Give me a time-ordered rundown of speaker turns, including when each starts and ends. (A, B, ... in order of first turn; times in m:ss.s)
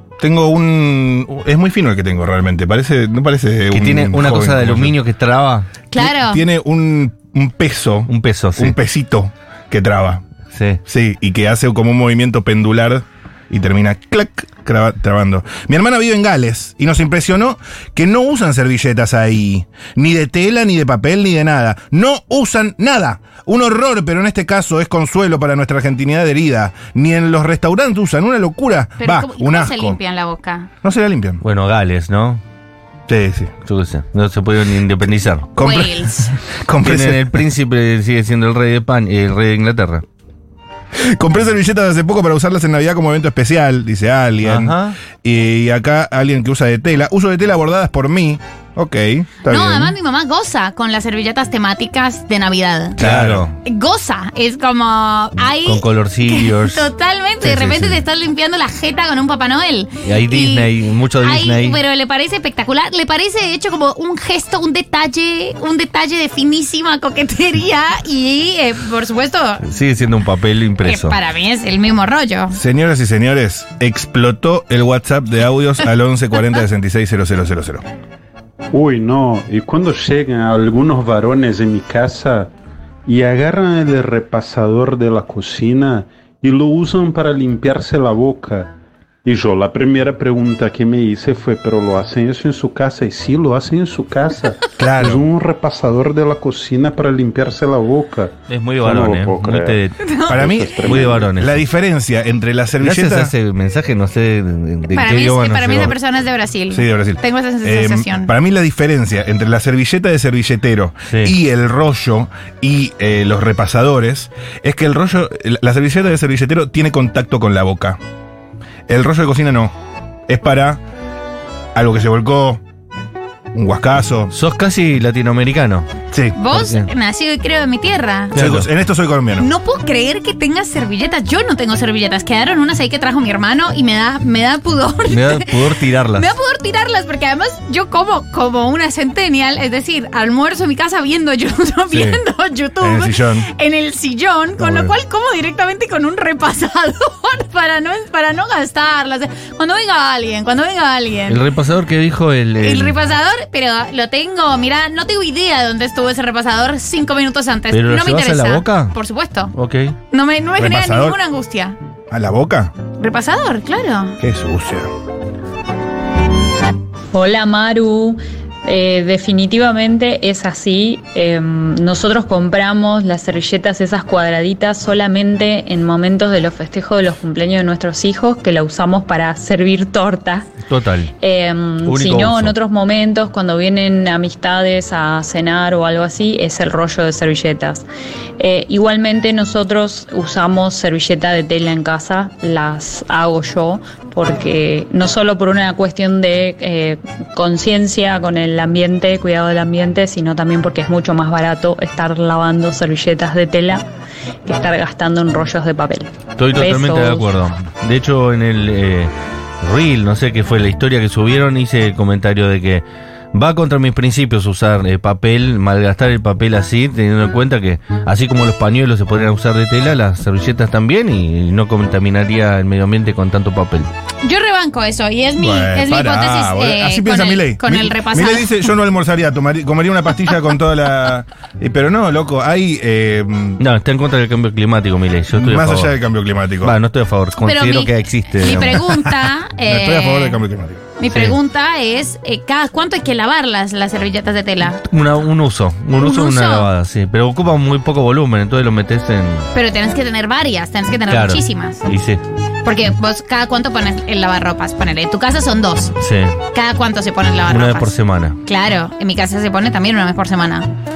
0:00.2-0:04.9 A
0:03.7-0:05.7 B
0:05.9-0:06.4 C
0:05.9-0:10.2 A
0:08.1-0:08.7 B
0:10.5-0:10.8 B
0:10.8-0:30.0 A
0:29.0-0:30.7 C
0:30.8-0:31.4 A
0:31.4-0:32.4 B
0:33.1-0:33.5 A
0:33.6-0:35.5 B
0:35.6-0:36.1 A
0:35.6-0:36.3 C
0:36.6-0:37.4 A
0:36.8-0:40.0 B
0:40.9-0:49.9 A
0:44.4-0:45.0 B
0:49.4-0:53.0 C
0:53.0-0:53.4 A
0:53.0-0:53.5 B
0:53.6-1:00.7 C
0:55.6-0:56.8 B
0:57.4-0:58.0 B
1:00.0-1:01.8 B
1:01.2-1:09.6 C
1:09.6-1:11.2 B
1:10.8-1:12.6 C
1:12.5-1:17.8 A
1:18.7-1:22.5 D
1:23.0-1:28.7 D
1:29.2-1:41.3 D
1:34.8-1:35.2 A
1:38.5-1:40.0 B
1:40.0-1:40.4 C
1:40.3-1:43.3 A
1:40.8-1:41.6 B
1:42.8-1:45.9 B
1:44.9-1:48.3 C
1:46.7-1:58.0 A
1:58.9-1:59.7 A
2:00.3-2:00.8 A
2:01.7-2:02.6 A
2:03.5-2:04.3 A
2:04.3-2:05.9 B
2:06.1-2:06.4 A
2:06.4-2:08.4 C
2:06.5-2:06.9 B
2:08.3-2:08.7 B
2:08.3-2:09.5 A
2:09.4-2:15.5 C
2:15.1-2:16.3 B
2:16.2-2:31.4 C
2:21.9-2:22.2 A
2:22.8-2:23.5 A
2:31.3-2:33.0 B
2:32.6-2:39.5 C
2:37.7-2:38.9 B
2:39.5-2:40.0 B
2:40.1-2:41.8 C
2:40.6-2:41.2 A
2:42.1-2:42.7 A
2:43.0-2:44.2 C
2:44.2-2:44.9 A
2:47.1-3:00.5 E
3:00.7-3:01.1 B
3:01.2-3:07.8 E
3:01.8-3:02.5 B
3:08.4-3:23.8 E
3:24.4-3:27.3 E
3:26.4-3:29.1 B
3:29.6-3:43.9 B
3:44.2-3:48.6 C
3:45.4-3:53.6 A
3:53.6-3:55.9 B
3:55.3-3:56.8 A
3:56.6-3:59.0 B
3:57.4-4:00.4 C
3:59.6-4:00.8 A
4:01.0-4:04.8 C
4:01.1-4:01.4 B
4:04.9-4:09.5 B
4:06.0-4:06.7 C
4:09.5-4:11.9 C
4:11.1-4:12.2 B
4:12.6-4:15.9 C
4:16.0-4:16.4 B
4:16.5-4:17.9 C
4:17.5-4:18.4 B
4:18.4-4:20.7 C